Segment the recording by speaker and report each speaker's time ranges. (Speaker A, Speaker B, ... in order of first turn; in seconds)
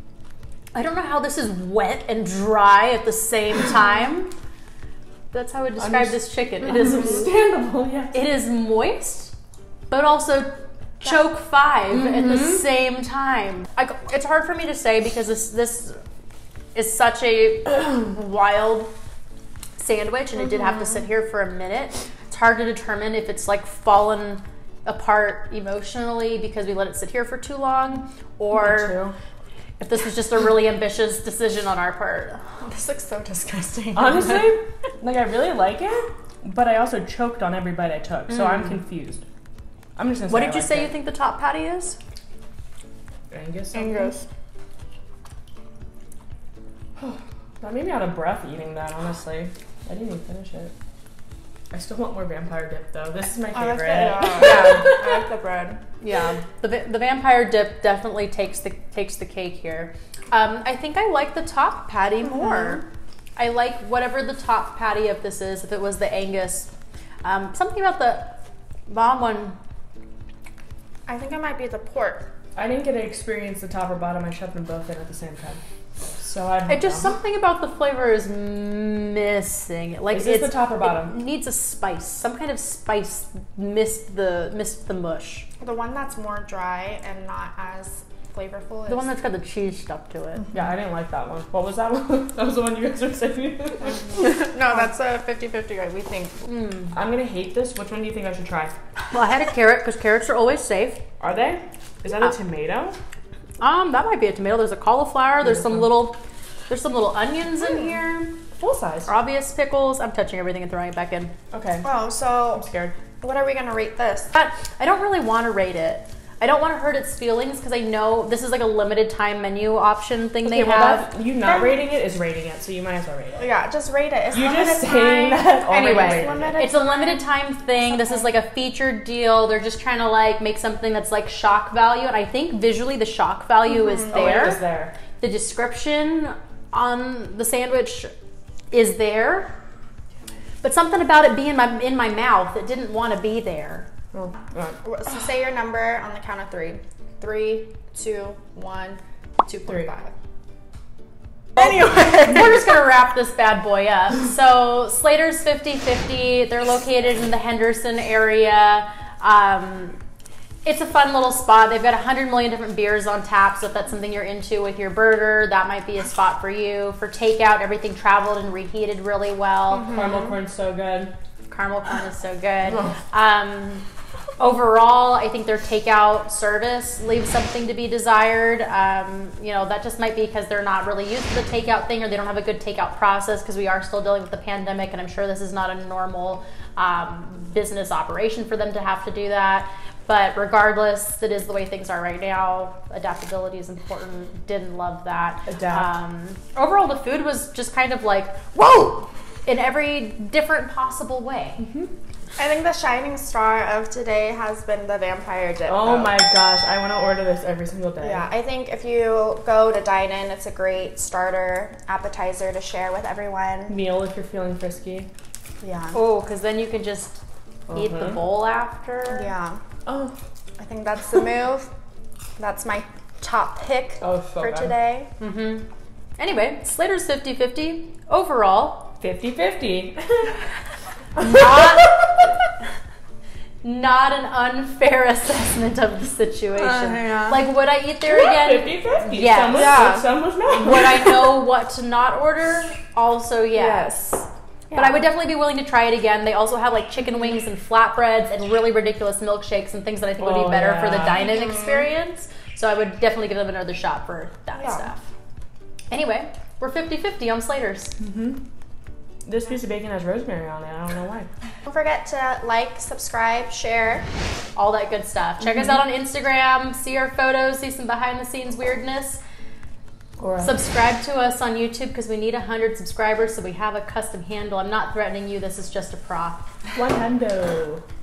Speaker A: 0.7-4.3, 5.3-7.3, 8.1-9.3, 9.9-16.0, 16.7-18.9, 19.8-29.0, 29.8-32.4, 40.3-42.0, 56.0-62.8, 63.4-66.7, 67.2-69.6, 76.7-85.5, 88.9-90.5, 96.4-96.9, 99.1-101.0, 103.6-108.4, 109.1-111.3, 114.3-121.1, 125.7-134.6, 135.2-138.1, 138.7-139.5, 140.6-143.9, 151.6-160.0, 160.6-170.0, 171.5-173.8, 174.4-201.6, 215.9-217.2, 217.7-219.3, 225.2-225.7, 226.2-228.9, 231.2-232.3, 233.6-240.0, 240.5-244.0, 244.7-255.0, 255.9-257.9, 264.6-269.2, 270.4-276.4
Speaker B: 5.8-8.2, 11.9-12.5, 28.5-29.1, 33.9-39.2, 40.0-40.9, 43.3-44.1, 47.0-50.7, 51.7-55.1, 72.5-75.6, 76.2-77.1, 80.1-81.1, 90.5-94.1, 96.9-98.7, 101.2-103.0, 105.4-105.9, 108.6-109.1, 111.5-111.9, 112.5-112.9, 120.4-123.4, 124.3-126.7, 134.1-134.9, 144.1-144.8, 169.8-171.1, 195.4-195.9, 201.6-201.9, 205.7-208.2, 213.7-215.1, 217.7-218.2, 219.8-220.2, 224.0-224.8, 229.0-230.4, 231.2-232.0, 238.1-241.4, 250.2-251.3, 258.0-258.4, 259.2-261.3, 270.2-270.5, 276.7-277.8
Speaker C: 32.6-34.5, 43.7-44.2, 53.5-55.8, 62.2-62.8, 71.1-72.3, 85.6-89.1, 94.0-96.4, 111.8-112.7, 113.2-114.3, 123.4-127.1, 127.9-128.2, 144.8-150.1, 151.6-152.3, 202.4-206.1, 208.0-213.8, 215.6-216.0, 219.1-219.6, 220.6-221.7, 222.4-225.1, 236.6-237.4, 239.5-240.1, 243.5-244.9, 254.6-254.8, 261.6-264.0